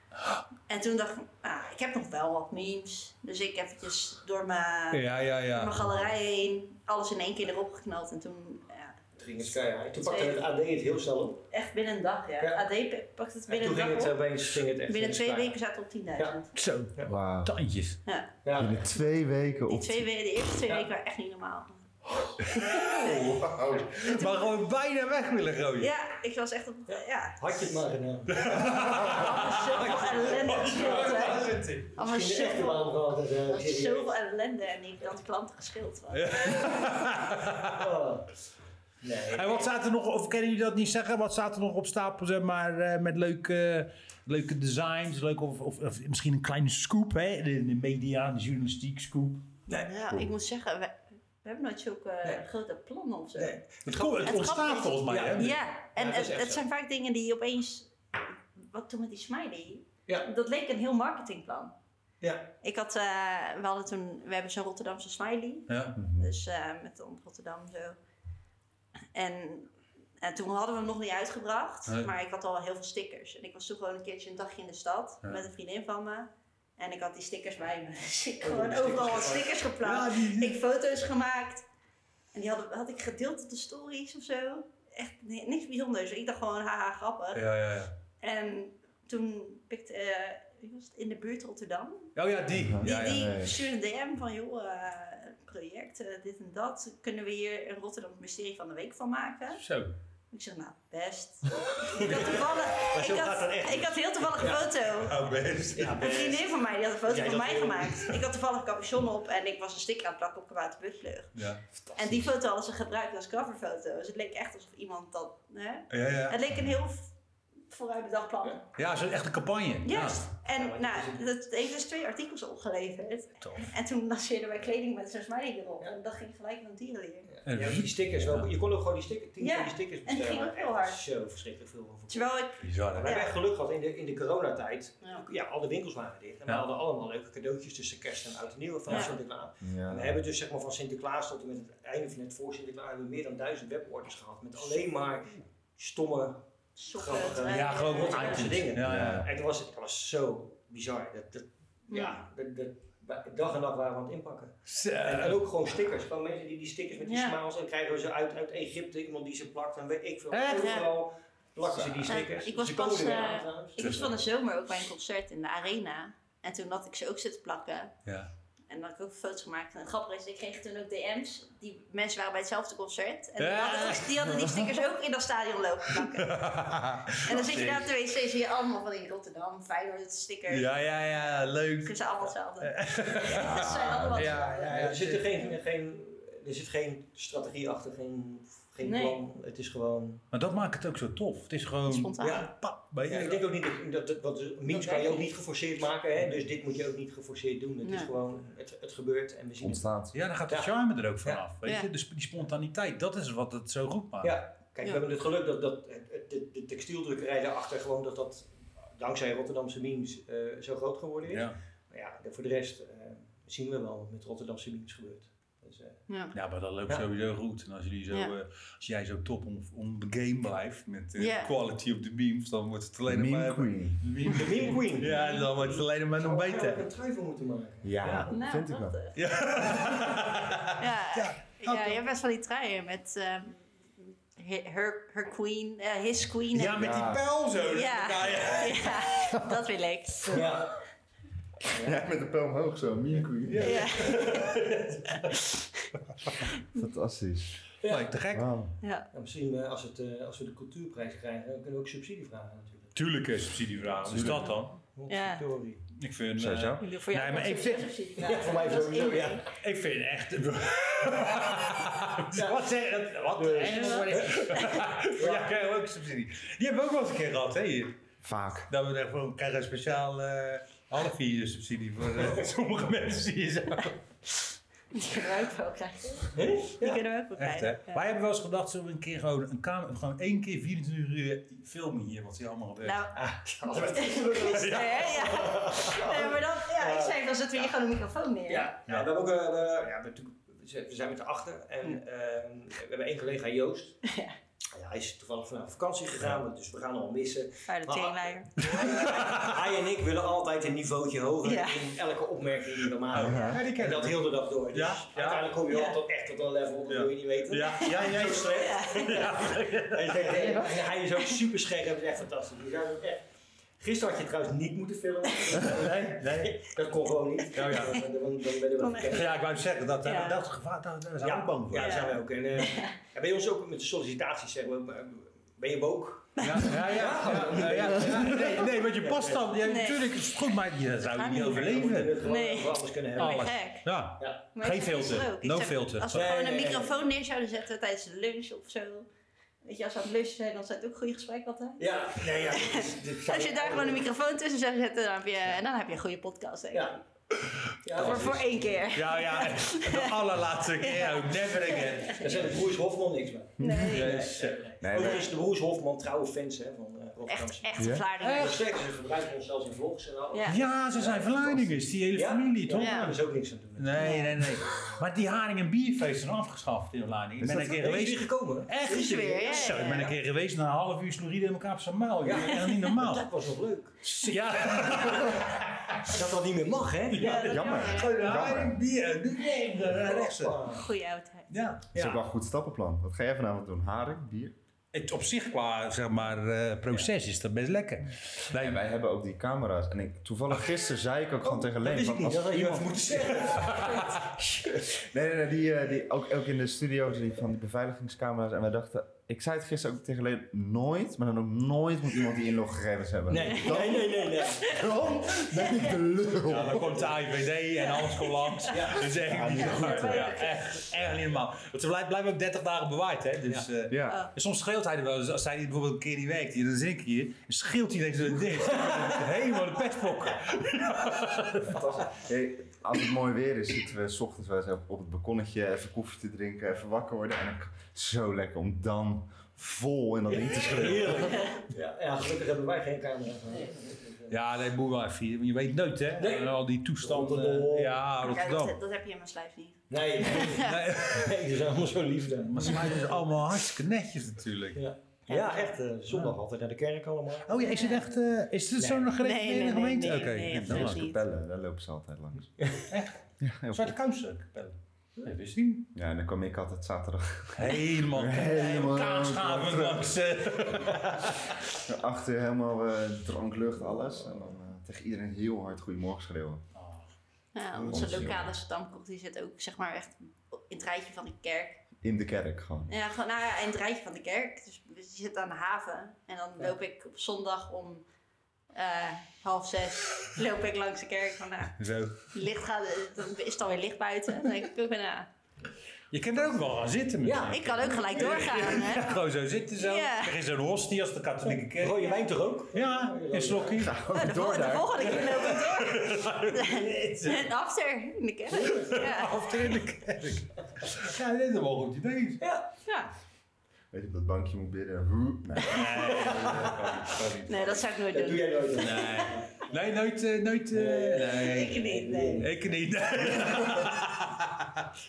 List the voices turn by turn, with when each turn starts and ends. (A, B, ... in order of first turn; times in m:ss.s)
0:00.7-0:09.0 A
0:04.9-0:05.9 B
0:09.2-0:11.4 C
0:10.0-0:10.4 A
0:11.5-0:14.2 A
0:12.4-0:12.6 C
0:13.5-0:15.6 C
0:14.9-0:16.5 A
0:16.5-0:18.0 B
0:17.1-0:17.5 D
0:18.4-0:18.8 C
0:18.5-0:20.1 D
0:19.7-0:21.8 A
0:22.4-0:25.9 B
0:22.8-0:24.5 A
0:23.4-0:23.9 D
0:25.8-0:27.7 A
0:26.9-0:34.1 C
0:28.3-0:31.9 B
0:28.9-0:36.8 A
0:36.1-0:37.9 B
0:37.7-0:38.4 C
0:39.0-0:39.7 C
0:39.3-0:49.4 B
0:49.8-0:53.6 A
0:53.4-0:56.6 C
0:53.8-0:55.5 B
0:54.2-1:01.7 A
1:02.2-1:02.5 C
1:02.6-1:08.0 A
1:05.7-1:06.0 B
1:06.0-1:06.3 D
1:09.1-1:21.6 A
1:18.4-1:19.6 C
1:19.8-1:20.6 B
1:22.3-1:27.4 A
1:27.3-1:27.9 B
1:28.2-1:32.1 A
1:32.2-1:33.3 B
1:32.5-1:33.5 D
1:32.8-1:39.6 A
1:39.6-1:39.9 B
1:40.3-1:45.2 A
1:41.9-1:44.7 C
1:45.0-1:46.2 B
1:45.7-1:46.5 C
1:46.0-1:51.4 A
1:47.0-1:48.1 C
1:51.3-1:51.6 B
1:51.9-1:57.1 A
1:55.9-1:56.4 B
1:57.7-1:58.6 A
1:58.8-2:00.3 B
1:59.8-2:07.3 A
2:00.4-2:01.3 C
2:03.4-2:03.7 B
2:07.3-2:44.1 C
2:07.4-2:08.5 B
2:09.4-2:11.0 A
2:12.1-2:13.3 A
2:12.6-2:13.2 B
2:18.9-2:19.1 A
2:19.6-2:20.2 D
2:26.8-2:28.6 A
2:27.4-2:29.3 B
2:28.8-2:29.3 D
2:31.9-2:32.2 A
2:34.7-2:35.4 B
2:37.0-2:37.4 A
2:40.3-2:40.9 B
2:40.5-2:40.9 A
2:41.7-2:41.9 D
2:42.0-2:47.9 A
2:43.8-2:44.1 B
2:48.0-2:48.3 B
2:48.7-2:56.5 A
2:53.4-2:54.5 B
2:56.0-2:57.9 B
2:57.2-3:00.7 A
3:00.5-3:05.5 B
3:01.8-3:04.8 A
3:03.5-3:04.4 D
3:04.6-3:10.2 C
3:08.8-3:09.2 A
3:10.3-3:13.4 B
3:11.9-3:12.4 A
3:12.2-3:12.5 C
3:13.1-3:19.8 C
3:14.7-3:15.2 A
3:17.8-3:18.1 A
3:19.6-3:20.2 D
3:20.1-3:24.4 B
3:21.6-3:21.9 A
3:24.2-3:36.0 C
3:31.3-3:31.5 B
3:36.1-3:36.3 A
3:36.3-3:46.8 B
3:41.2-3:41.5 A
3:43.0-3:44.1 D
3:44.2-3:48.3 C
3:45.1-3:45.4 A
3:47.8-3:49.0 D
3:48.0-3:48.3 B
3:48.3-3:49.2 A
3:49.1-3:52.0 B
3:50.7-3:56.9 A
3:56.5-3:59.5 B
3:56.8-3:57.3 D
3:57.6-4:00.5 A
4:00.3-4:00.8 C
4:01.7-4:02.0 C
4:01.8-4:03.8 D
4:03.5-4:05.3 B
4:03.5-4:04.6 C
4:03.6-4:04.4 A
4:05.3-4:05.9 A
4:06.7-4:07.6 D
4:07.8-4:08.1 C
4:07.9-4:08.5 B
4:08.3-4:08.7 D
4:08.8-4:09.1 A
4:09.1-4:12.9 C
4:12.9-4:14.8 B
4:14.0-4:14.5 D
4:14.9-4:15.8 C
4:15.1-4:15.4 A
4:16.0-4:17.9 B
4:16.4-4:16.8 D
4:16.8-4:19.4 A
4:18.2-4:19.4 C
4:19.5-4:28.0 B
4:22.3-4:22.7 C
4:23.3-4:25.5 C
4:23.7-4:24.6 A
4:28.2-4:28.7 D
4:28.7-4:34.0 B
4:34.9-4:38.0 A
4:36.3-4:37.0 C
4:37.4-4:43.1 B
4:42.8-4:43.2 A
4:43.1-4:47.2 C
4:43.9-4:48.7 A
4:44.4-4:45.8 B
4:48.5-4:54.0 C
4:54.0-4:54.3 A
4:54.7-5:13.2 C
4:57.7-4:58.5 A
4:58.6-4:59.4 B
5:01.4-5:01.9 A
5:03.1-5:05.5 B
5:03.1-5:03.6 D
5:05.7-5:06.0 A
5:06.9-5:10.9 B
5:08.6-5:09.2 A
5:13.8-5:19.4 C
5:15.6-5:16.6 B
5:17.5-5:18.0 B
5:18.8-5:19.2 A
5:19.0-5:22.1 B
5:20.0-5:20.4 A
5:21.2-5:29.4 C
5:21.8-5:22.9 A
5:26.4-5:26.7 A
5:26.4-5:32.2 B
5:29.6-5:30.2 A
5:31.2-5:31.7 A
5:31.3-5:33.6 C
5:32.2-5:33.9 A
5:33.2-5:36.3 B
5:34.5-5:39.0 A
5:36.1-5:37.0 C
5:39.6-5:47.0 A
5:41.8-5:44.0 C
5:46.7-5:47.0 C
5:47.4-5:48.3 B
5:47.8-5:48.9 C
5:47.9-5:50.2 A
5:48.9-5:52.5 B
5:50.8-5:52.4 A
5:52.2-6:01.6 C
5:53.6-5:54.2 A
5:53.6-5:53.9 D
5:53.6-5:54.7 B
5:54.8-5:55.3 D
5:57.2-5:58.6 A
5:57.8-5:58.0 D
5:58.2-5:58.6 B
6:00.3-6:00.6 A
6:00.5-6:03.2 B
6:02.1-6:04.8 C
6:02.8-6:03.1 A
6:03.8-6:13.2 B
6:04.0-6:04.4 A
6:07.4-6:10.2 C
6:08.8-6:10.1 A
6:12.2-6:15.4 C
6:14.0-6:16.1 B
6:16.0-6:17.5 C
6:17.1-6:20.7 B
6:17.1-6:18.3 A
6:17.3-6:18.8 D
6:19.8-6:20.8 C
6:20.7-6:21.5 A
6:21.5-6:22.2 B
6:21.9-6:24.5 D
6:24.9-6:28.8 B
6:28.5-6:33.4 D
6:31.4-6:34.3 C
6:33.4-6:34.1 B
6:34.2-6:47.0 D
6:43.3-6:44.9 C
6:43.4-6:46.0 A
6:46.4-7:01.8 B
6:46.5-6:47.1 C
6:47.8-6:48.9 A
6:48.7-6:49.2 C
6:49.2-6:50.3 D
6:49.6-6:50.8 A
6:53.9-6:54.2 D
6:58.7-6:59.1 C
7:01.7-7:11.4 D
7:10.3-7:14.3 C
7:11.3-7:11.6 A
7:14.3-7:18.7 B
7:16.2-7:18.0 C
7:18.2-7:20.8 A
7:19.9-7:23.2 C
7:20.4-7:21.6 B
7:22.4-7:24.8 B
7:24.7-7:28.0 C
7:25.3-7:25.8 A
7:26.1-7:26.4 B
7:27.4-7:31.0 B
7:27.6-7:28.0 A
7:28.8-7:29.1 C
7:29.2-7:31.2 A
7:30.6-7:32.6 D
7:32.6-7:32.9 C
7:32.9-7:35.9 B
7:33.4-7:33.9 D
7:35.9-7:40.2 D
7:37.5-7:41.5 B
7:40.8-7:41.1 C
7:41.8-7:46.6 D
7:43.9-7:44.4 C
7:46.7-7:47.1 B
7:47.5-7:51.8 A
7:47.8-7:48.5 D
7:52.0-7:52.9 D
7:52.9-7:58.0 A
7:58.7-8:05.3 A
8:01.8-8:02.3 B
8:06.1-8:14.0 B
8:07.2-8:08.6 C
8:07.5-8:09.2 A
8:09.8-8:10.3 A
8:11.5-8:13.9 C
8:13.8-8:15.2 D
8:14.1-8:19.4 A
8:15.0-8:17.5 B
8:18.5-8:19.1 C
8:18.7-8:22.4 B
8:22.4-8:22.7 C
8:22.8-8:23.1 A
8:23.9-8:27.5 D
8:25.6-8:27.8 B
8:26.3-8:26.7 C
8:27.4-8:29.3 A
8:28.1-8:29.8 C
8:28.7-8:31.8 B
8:30.7-8:32.7 C
8:31.4-8:32.5 A
8:32.4-8:34.9 B